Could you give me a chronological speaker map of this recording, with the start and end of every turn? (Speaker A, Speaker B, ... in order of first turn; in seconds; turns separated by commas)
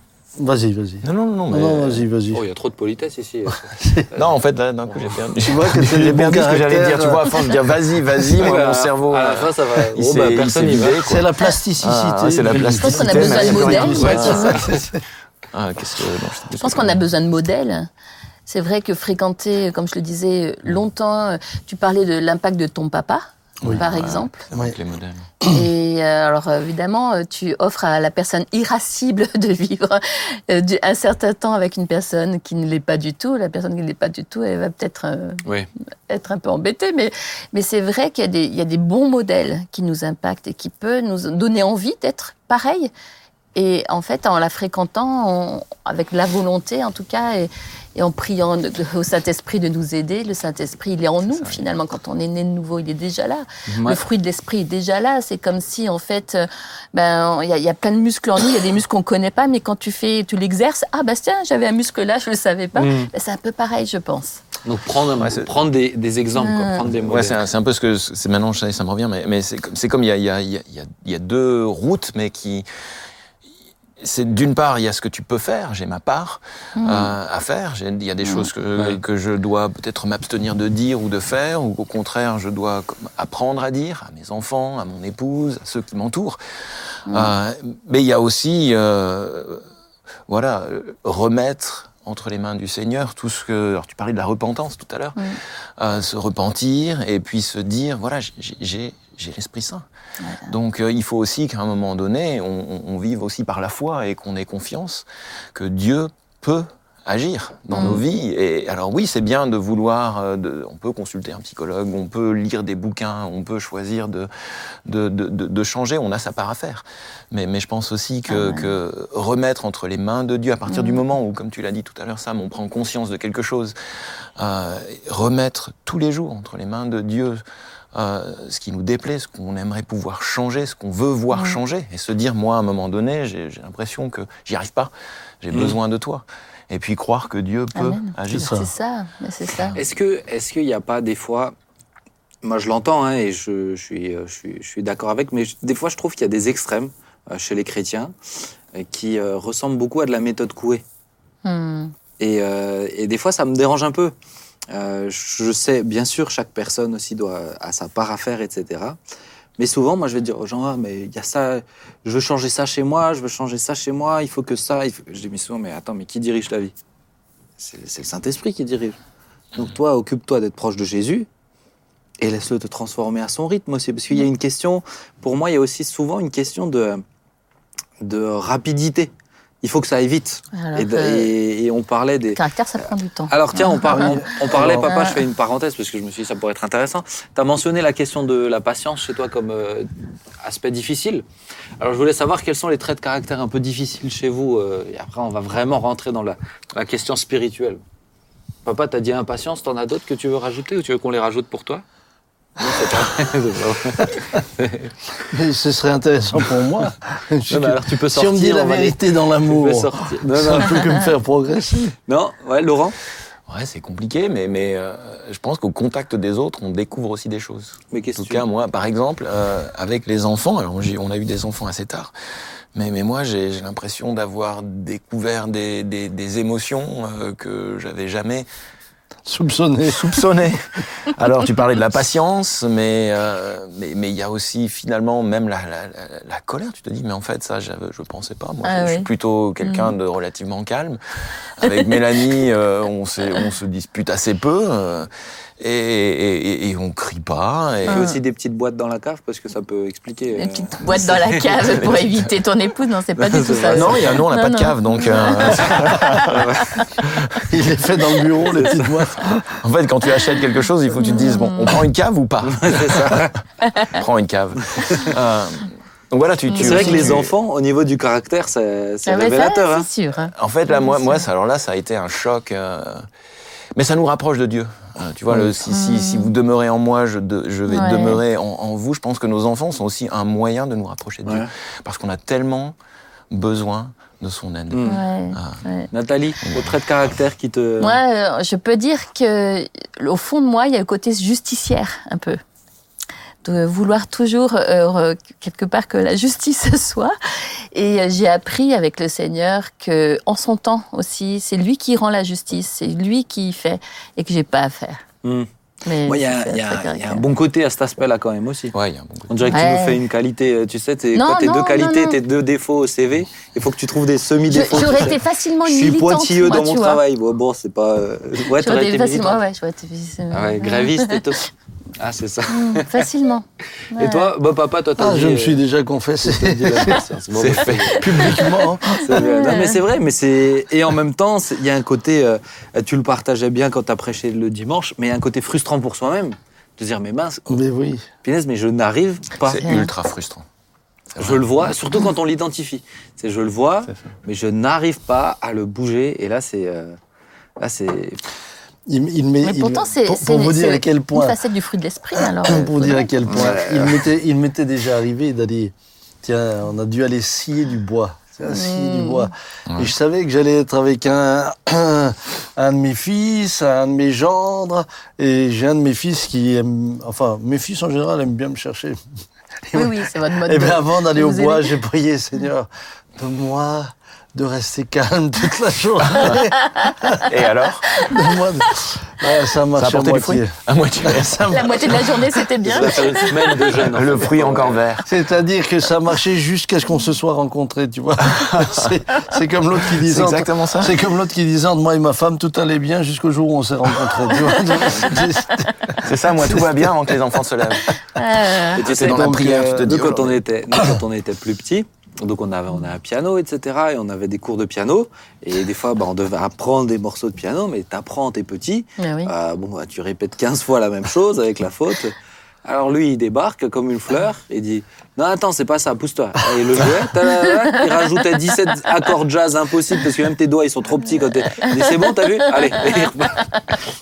Speaker A: 0.4-2.4, Speaker B: 1.0-2.0, Speaker C: 2.3-4.2, Speaker A: 3.5-4.1, Speaker B: 4.1-11.2, Speaker C: 4.9-5.3, Speaker A: 5.4-7.5, Speaker C: 8.3-11.1, Speaker A: 11.0-15.0, Speaker B: 11.8-14.8, Speaker D: 12.7-14.6, Speaker C: 13.9-14.7, Speaker B: 15.5-17.0, Speaker D: 16.6-17.9, Speaker D: 18.4-24.4, Speaker B: 23.6-25.3, Speaker A: 24.5-24.8, Speaker D: 25.4-35.4, Speaker D: 36.1-42.9, Speaker D: 43.5-64.4, Speaker B: 51.4-51.6, Speaker C: 53.7-54.0, Speaker C: 62.8-63.1, Speaker C: 64.6-67.5, Speaker B: 65.2-65.5, Speaker D: 66.3-66.8, Speaker B: 66.9-72.7, Speaker B: 74.0-86.4, Speaker D: 76.8-77.1, Speaker D: 78.2-78.5, Speaker D: 87.1-87.3, Speaker B: 87.1-89.6, Speaker B: 90.3-95.2, Speaker B: 95.8-99.8, Speaker B: 100.4-114.3, Speaker D: 107.7-108.0, Speaker B: 114.8-123.8, Speaker D: 118.3-118.7, Speaker D: 120.7-121.0, Speaker B: 124.4-127.4, Speaker B: 127.9-138.6, Speaker D: 131.3-131.6, Speaker C: 135.5-135.8, Speaker D: 137.7-139.8, Speaker A: 138.3-138.7, Speaker C: 139.8-141.5, Speaker C: 142.4-148.1, Speaker C: 148.7-150.8, Speaker D: 151.4-151.9, Speaker C: 152.2-154.1, Speaker C: 154.7-159.0, Speaker C: 159.6-166.7, Speaker C: 167.6-169.0, Speaker C: 169.5-171.3, Speaker C: 172.2-177.0, Speaker C: 178.0-179.1, Speaker C: 179.6-182.4, Speaker D: 180.5-181.3, Speaker D: 182.3-184.1, Speaker C: 183.3-191.2, Speaker A: 183.7-184.9, Speaker D: 184.8-185.2, Speaker C: 191.8-197.8, Speaker C: 198.6-201.8, Speaker C: 202.6-205.2, Speaker A: 205.3-212.0, Speaker C: 207.5-211.0, Speaker C: 212.1-213.0, Speaker B: 213.5-222.1, Speaker C: 217.9-218.4, Speaker B: 222.7-228.5, Speaker A: 229.3-230.6, Speaker B: 229.9-241.0, Speaker D: 238.6-239.1, Speaker D: 239.6-239.9, Speaker B: 241.6-245.1, Speaker D: 241.6-242.2, Speaker B: 245.6-248.1, Speaker C: 247.8-251.9, Speaker D: 247.9-248.2, Speaker D: 250.3-256.9, Speaker B: 251.6-252.3, Speaker C: 253.2-254.2, Speaker B: 253.6-256.4, Speaker C: 255.5-256.8, Speaker B: 257.0-257.5, Speaker A: 257.5-259.6, Speaker C: 258.4-259.3, Speaker B: 259.6-263.2, Speaker D: 261.0-261.8, Speaker C: 262.4-263.4, Speaker D: 263.6-264.0, Speaker B: 263.8-267.3, Speaker C: 264.8-265.1, Speaker D: 266.5-267.2, Speaker C: 266.5-269.9, Speaker D: 269.1-271.2, Speaker B: 270.3-273.1, Speaker B: 273.7-282.8, Speaker D: 275.7-276.3, Speaker D: 277.7-278.2, Speaker B: 283.3-285.6, Speaker C: 284.7-285.0, Speaker D: 284.8-285.9, Speaker C: 285.9-288.0, Speaker B: 286.4-286.7, Speaker D: 287.8-292.4, Speaker D: 293.4-305.0, Speaker D: 305.9-307.2, Speaker C: 306.0-308.7, Speaker B: 308.7-309.6, Speaker C: 309.3-319.4, Speaker D: 309.5-310.0, Speaker D: 311.1-312.2, Speaker D: 314.5-317.0, Speaker D: 318.6-321.2, Speaker C: 320.3-323.1, Speaker D: 322.5-324.3, Speaker C: 323.9-325.6, Speaker A: 325.0-327.0, Speaker C: 326.2-337.6, Speaker B: 327.3-328.4, Speaker D: 327.8-329.8, Speaker A: 328.0-329.0, Speaker A: 337.5-338.0, Speaker C: 338.2-339.6, Speaker B: 339.4-340.4, Speaker D: 339.6-339.9, Speaker B: 341.1-341.5, Speaker C: 341.2-347.0, Speaker C: 347.6-348.2, Speaker A: 348.9-351.4, Speaker D: 349.4-353.1, Speaker A: 352.1-369.0, Speaker C: 353.2-354.0, Speaker D: 358.4-359.3, Speaker B: 359.7-359.9, Speaker A: 369.6-377.3, Speaker D: 369.7-371.7, Speaker B: 376.1-376.4, Speaker B: 377.2-378.1, Speaker A: 377.9-382.2, Speaker B: 379.8-382.0, Speaker D: 381.5-383.6, Speaker C: 382.6-384.8, Speaker B: 383.8-385.1, Speaker A: 385.0-396.9, Speaker B: 388.2-389.0, Speaker B: 389.8-391.0, Speaker B: 396.0-398.0, Speaker D: 398.0-398.8, Speaker C: 398.7-423.5, Speaker B: 398.8-400.4, Speaker A: 399.0-399.9, Speaker D: 409.0-409.3, Speaker D: 417.2-418.2, Speaker D: 421.6-423.8